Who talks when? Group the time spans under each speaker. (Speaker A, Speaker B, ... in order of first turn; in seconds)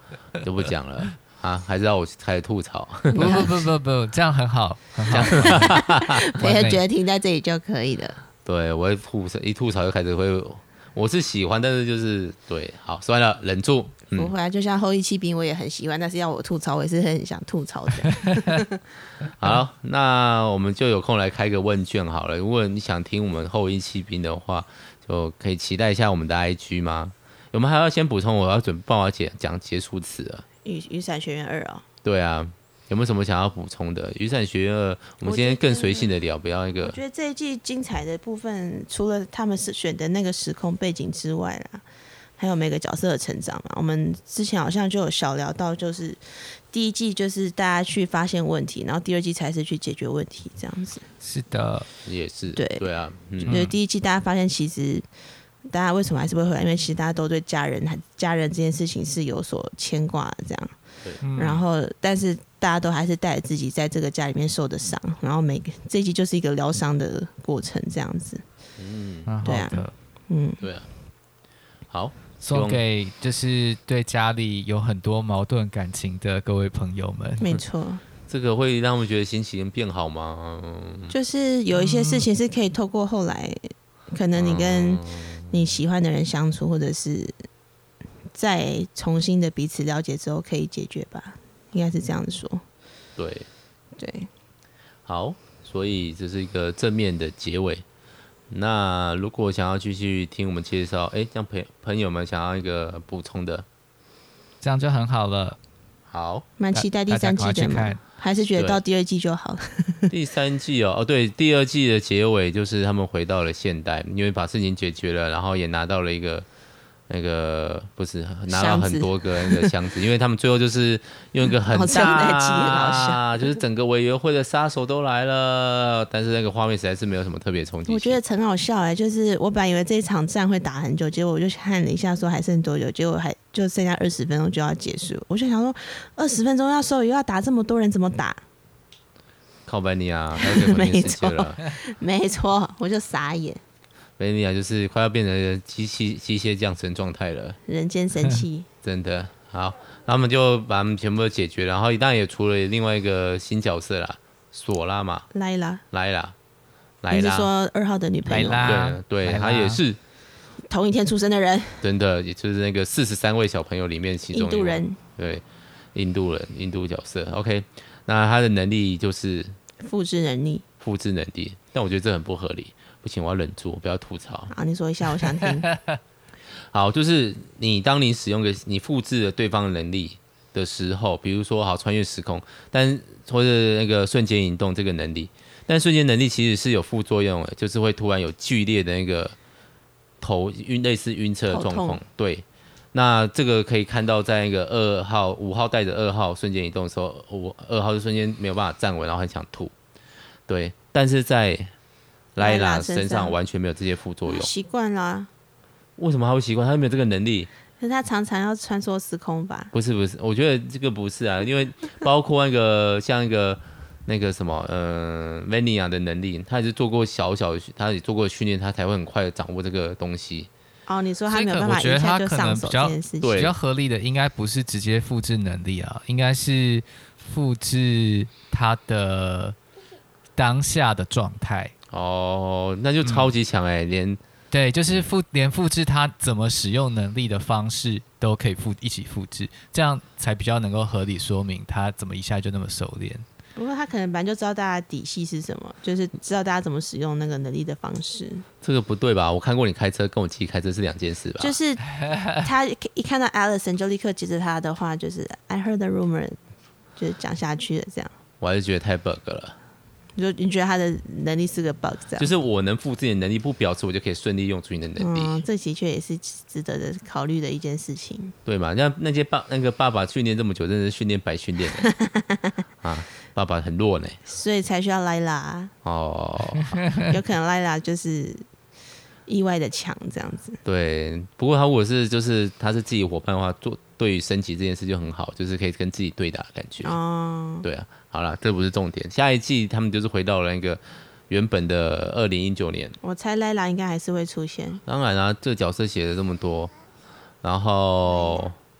Speaker A: 0.4-3.5, 5.1-6.3, 8.4-14.3, 19.4-30.4, 32.0-37.0, 52.0-53.6, 68.8-69.3, 70.6-70.9, 71.9-72.8, 78.3-81.1, 84.3-85.7, 93.2-93.5, 95.0-97.8, 98.5-103.7, 106.1-106.5, 108.5-108.8, 110.1-116.5, 117.1-128.2, 139.7-141.6, 144.2-147.6, 148.8-155.3, 155.9-156.3, 157.0-157.5, 158.6-160.0, 161.8-169.6, 170.8-174.5, 176.7-189.3, 190.2-199.7, 200.5-201.7, 202.3-204.5, 206.0-207.5, 209.7-220.5, 223.2-223.5, 231.9-234.2, 248.6-251.6, 258.4-259.6, 262.2-265.4, 268.4-271.9, 272.8-274.2, 275.8-276.8, 280.6-287.0, 287.6-293.0, 294.9-296.7, 297.4-298.5
Speaker B: 3.1-5.8, 6.3-6.8, 51.2-51.9, 53.4-53.8, 61.2-61.6, 69.3-69.9, 72.4-77.6, 81.7-82.3, 104.6-105.6, 106.7-108.0, 158.2-159.8, 175.4-176.0, 221.3-229.6, 230.3-231.7, 233.0-233.3, 234.5-243.2, 252.0-252.4
Speaker C: 3.1-3.5, 5.4-8.2, 14.2-18.8, 30.6-31.8, 35.2-36.1, 36.8-41.8, 42.4-51.0, 52.5-55.0, 55.6-60.7, 61.3-68.4, 69.4-70.6, 77.4-78.0, 81.1-87.3, 88.3-92.6, 94.0-94.3, 106.6-110.1, 118.5-119.7, 121.7-123.3, 127.8-138.4, 140.4-143.6, 147.7-148.7, 155.3-155.8, 157.1-158.8, 160.7-161.8, 164.3-165.0, 169.8-170.6, 174.5-175.7, 191.5-192.0, 202.4-203.3, 204.2-205.3, 207.8-209.7, 220.9-223.4, 243.6-248.4, 251.4-256.4, 256.9-258.1, 260.1-262.3, 265.0-268.4, 271.8-272.5, 274.3-275.7, 277.0-278.4, 279.3-280.6, 286.8-287.6, 293.0-294.8